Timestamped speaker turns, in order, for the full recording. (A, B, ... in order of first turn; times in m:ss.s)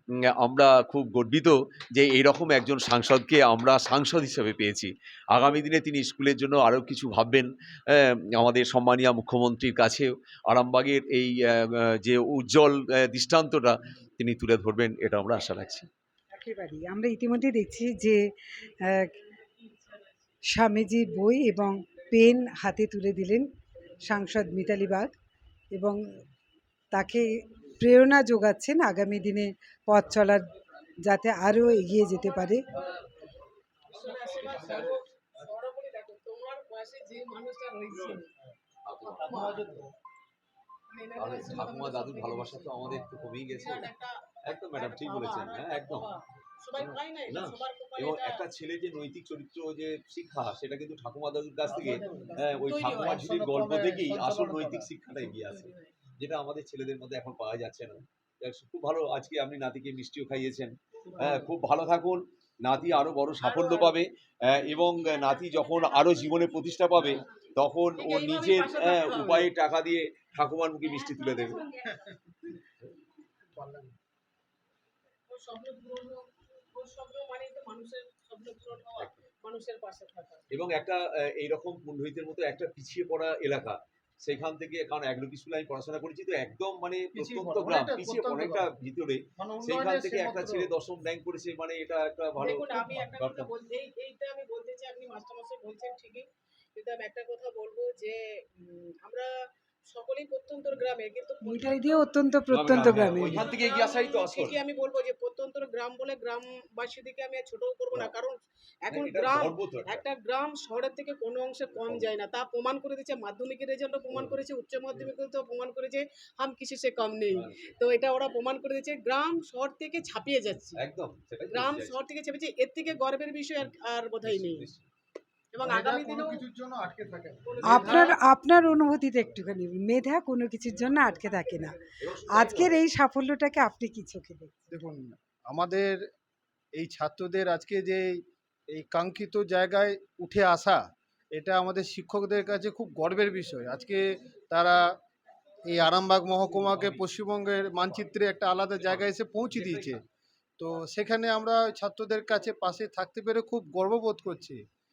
0:00.3-0:15.9 A
0:16.3-0:18.2 B
0:18.8-0:19.1 B
0:19.6-0:20.1 C
0:20.5-0:23.5 B
0:24.0-0:25.1 B
0:25.7-0:26.0 B
0:26.9-0:30.5 B
0:31.0-0:32.7 B
0:33.9-0:38.2 C
0:38.8-0:39.6 A
0:39.1-0:39.6 C
0:40.9-0:48.5 C
0:41.2-0:43.9 A
0:44.4-0:46.1 A
0:46.8-1:11.7 A
0:52.6-0:53.2 C
0:53.0-0:54.9 D
0:55.5-0:55.8 C
1:03.4-1:04.0 C
1:08.0-1:09.5 C
1:13.6-1:13.9 D
1:15.3-1:20.5 C
1:20.5-1:33.5 A
1:27.1-1:28.7 D
1:29.4-1:30.7 D
1:32.4-1:39.3 C
1:39.9-1:42.0 C
1:41.4-1:43.4 B
1:42.5-1:44.6 A
1:42.9-2:00.8 C
1:48.9-1:50.0 A
1:57.4-1:57.7 A
2:00.8-2:02.0 A
2:01.5-2:04.7 C
2:04.2-2:04.8 A
2:05.5-2:06.4 C
2:05.6-2:08.1 D
2:07.4-2:08.2 C
2:07.6-2:11.8 B
2:10.8-2:11.8 C
2:12.0-2:12.8 A
2:12.3-2:14.7 B
2:14.7-2:16.0 D
2:16.7-2:18.1 D
2:18.7-2:24.9 D
2:25.7-2:30.0 D
2:28.8-2:30.0 A
2:30.6-2:34.6 D